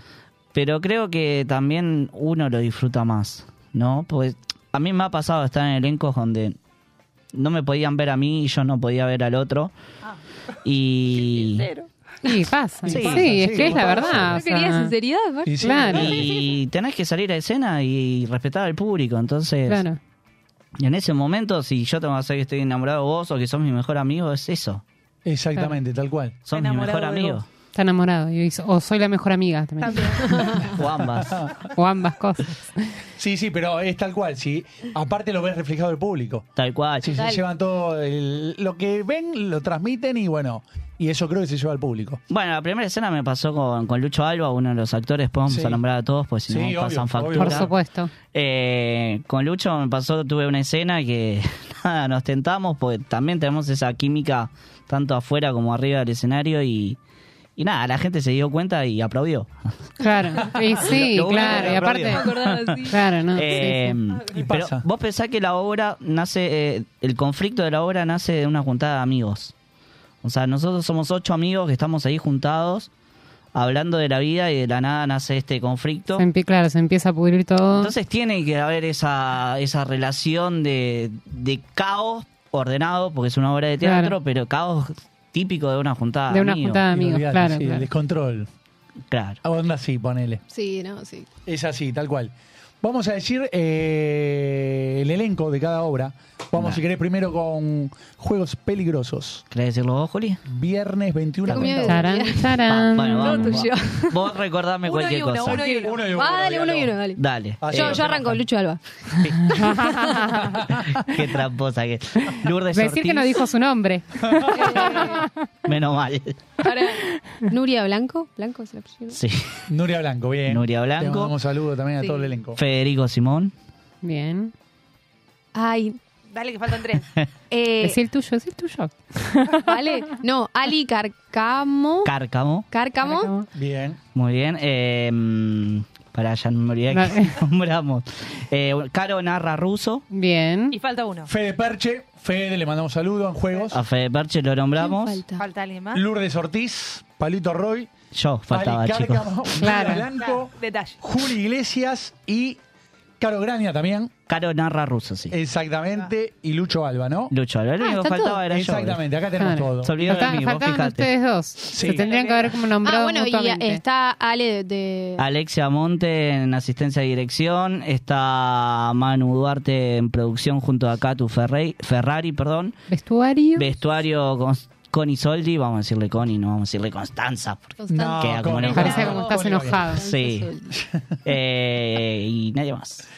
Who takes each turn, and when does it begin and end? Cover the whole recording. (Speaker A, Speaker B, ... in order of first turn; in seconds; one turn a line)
Speaker A: 0.5-6.6
Speaker A: 7.3-9.7
Speaker A: 10.6-11.7
Speaker B: 11.2-11.9
Speaker C: 12.2-14.9
Speaker A: 12.9-13.6
Speaker D: 12.9-14.4
Speaker B: 14.1-14.5
Speaker E: 14.4-15.6
Speaker D: 15.4-16.2
Speaker C: 15.6-16.1
Speaker B: 15.9-16.5
Speaker A: 15.9-19.9
Speaker C: 19.7-20.0
Speaker A: 20.8-24.8
Speaker D: 25.2-26.4
Speaker A: 26.5-27.4
Speaker B: 26.5-27.4
Speaker C: 27.7-30.6
Speaker B: 29.8-30.6
Speaker A: 30.8-31.3
Speaker D: 31.2-31.5
Speaker C: 31.7-32.9
Speaker D: 33.2-36.5
Speaker A: 36.5-37.2
Speaker D: 37.0-42.2
Speaker E: 37.1-37.4
Speaker A: 42.3-47.7
Speaker D: 45.5-45.8
Speaker D: 46.5-47.7
Speaker C: 47.3-48.1
Speaker A: 48.3-57.0
Speaker A: 57.6-59.5
Speaker C: 60.0-62.3
Speaker A: 60.8-69.5
Speaker B: 61.3-64.4
Speaker C: 62.9-63.9
Speaker D: 64.3-64.8
Speaker A: 70.2-72.9
Speaker A: 73.5-76.3
Speaker C: 76.2-77.9
Speaker A: 77.7-86.8
Speaker C: 83.8-84.1
Speaker C: 86.3-87.9
Speaker D: 86.9-88.5
Speaker A: 89.1-89.4
Speaker D: 89.4-90.4
Speaker E: 90.5-91.3
Speaker D: 91.5-99.4
Speaker A: 96.5-96.8
Speaker A: 99.5-100.4
Speaker D: 100.5-102.0
Speaker E: 101.5-102.6
Speaker A: 101.5-101.9
Speaker C: 101.8-103.6
Speaker A: 102.6-105.6
Speaker E: 103.2-104.2
Speaker B: 104.8-106.2
Speaker D: 105.5-107.0
Speaker E: 105.6-107.2
Speaker A: 107.2-108.2
Speaker D: 107.6-108.4
Speaker E: 107.7-108.8
Speaker D: 109.2-109.8
Speaker C: 109.6-110.4
Speaker E: 109.7-110.1
Speaker D: 110.3-111.0
Speaker A: 111.1-113.4
Speaker C: 112.7-115.3
Speaker D: 114.2-114.5
Speaker E: 114.6-115.2
Speaker A: 115.6-116.4
Speaker E: 116.6-119.2
Speaker A: 119.1-119.5
Speaker D: 119.7-122.6
Speaker A: 120.5-121.3
Speaker E: 122.0-122.3
Speaker A: 122.5-123.5
Speaker C: 124.0-124.5
Speaker E: 125.5-126.0
Speaker B: 126.3-127.1
Speaker E: 127.5-128.0
Speaker C: 127.8-129.6
Speaker E: 129.6-132.1
Speaker A: 132.0-132.7
Speaker E: 132.7-133.4
Speaker C: 133.0-133.4
Speaker D: 133.5-134.0
Speaker A: 134.1-140.0
Speaker C: 136.9-137.3
Speaker C: 140.1-140.8
Speaker B: 140.7-141.3
Speaker D: 141.3-143.8
Speaker A: 143.7-145.2
Speaker E: 144.8-145.4
Speaker B: 145.3-146.0
Speaker D: 145.9-147.9
Speaker A: 148.1-149.4
Speaker D: 148.5-152.6
Speaker C: 149.6-150.1
Speaker B: 150.2-151.0
Speaker D: 153.2-154.1
Speaker A: 154.3-155.4
Speaker D: 155.3-157.3
Speaker A: 157.3-159.1
Speaker E: 157.8-158.4
Speaker D: 158.4-160.4
Speaker C: 159.4-163.8
Speaker A: 159.8-161.1
Speaker D: 161.7-162.0
Speaker B: 161.8-162.6
Speaker E: 162.8-165.2
Speaker A: 165.2-172.8
Speaker C: 172.9-173.7
Speaker A: 173.5-179.1
Speaker E: 177.8-180.7
Speaker D: 177.9-180.0
Speaker C: 178.7-180.0
Speaker A: 180.0-180.5
Speaker D: 180.7-181.1
Speaker A: 181.2-183.1